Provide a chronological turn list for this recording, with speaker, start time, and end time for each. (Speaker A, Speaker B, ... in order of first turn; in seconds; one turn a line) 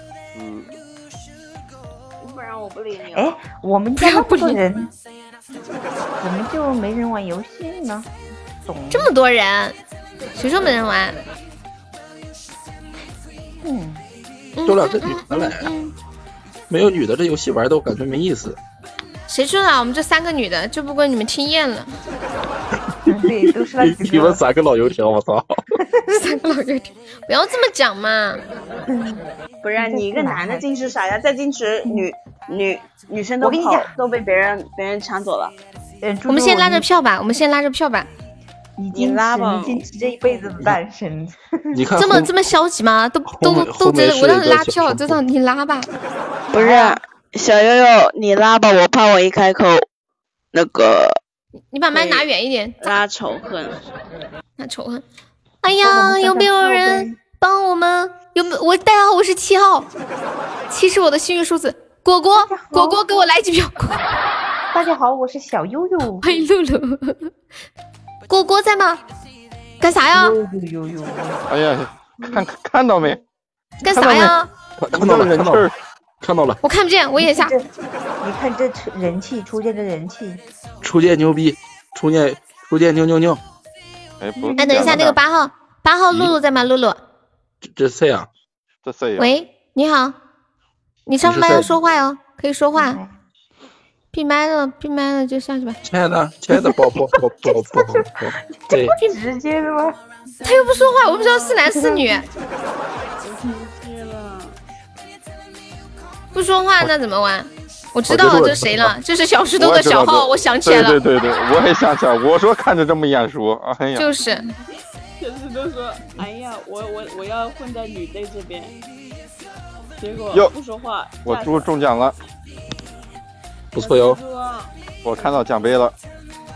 Speaker A: 0.3-0.7
Speaker B: 2.2-3.4
Speaker C: 3.1-4.9
Speaker D: 4.0-4.6
Speaker C: 6.2-8.1
Speaker C: 8.6-9.1
Speaker D: 8.9-9.8
Speaker D: 10.3-11.2
Speaker C: 13.6-14.0
Speaker D: 14.6-15.9
Speaker E: 14.7-15.7
Speaker E: 16.7-18.6
Speaker D: 19.3-21.9
Speaker C: 23.1-24.4
Speaker E: 23.2-25.6
Speaker D: 26.1-28.4
Speaker C: 28.9-29.2
Speaker B: 29.6-35.5
Speaker C: 29.8-30.6
Speaker C: 33.4-33.9
Speaker C: 36.0-36.9
Speaker D: 36.3-38.1
Speaker C: 38.8-41.8
Speaker B: 38.9-39.8
Speaker E: 41.7-42.3
Speaker D: 42.0-45.9
Speaker E: 43.3-45.2
Speaker D: 46.5-47.0
Speaker B: 46.5-49.9
Speaker B: 50.5-51.2
Speaker D: 51.7-53.0
Speaker B: 51.9-52.3
Speaker B: 52.8-53.8
Speaker D: 54.6-55.0
Speaker D: 55.6-59.9
Speaker C: 55.8-57.2
Speaker D: 60.7-64.0
Speaker C: 62.4-63.0
Speaker C: 64.7-66.3
Speaker D: 66.2-67.3
Speaker D: 68.3-69.0
Speaker D: 69.8-70.4
Speaker C: 70.1-71.5
Speaker A: 71.5-73.2
Speaker D: 73.8-74.5
Speaker A: 74.0-74.3
Speaker E: 74.8-75.7
Speaker A: 74.9-75.8
Speaker E: 76.2-76.6
Speaker D: 76.6-77.5
Speaker C: 77.2-77.7
Speaker C: 78.2-80.4
Speaker E: 80.8-83.4
Speaker A: 84.2-85.2
Speaker C: 84.4-84.9
Speaker D: 84.6-87.0
Speaker E: 87.6-88.3
Speaker A: 88.8-89.3
Speaker D: 89.2-90.2
Speaker D: 91.1-93.0
Speaker E: 91.2-91.7
Speaker C: 92.8-93.1
Speaker D: 94.1-95.8
Speaker E: 95.8-99.0
Speaker C: 98.7-100.0
Speaker B: 100.4-101.6
Speaker D: 100.4-102.3
Speaker B: 103.2-104.6
Speaker D: 106.3-111.0
Speaker E: 108.1-109.0
Speaker A: 109.6-114.1
Speaker D: 114.0-114.5
Speaker B: 115.2-118.8
Speaker B: 120.0-121.7
Speaker A: 121.2-122.2
Speaker E: 123.7-124.2
Speaker B: 123.8-124.7
Speaker A: 125.0-126.0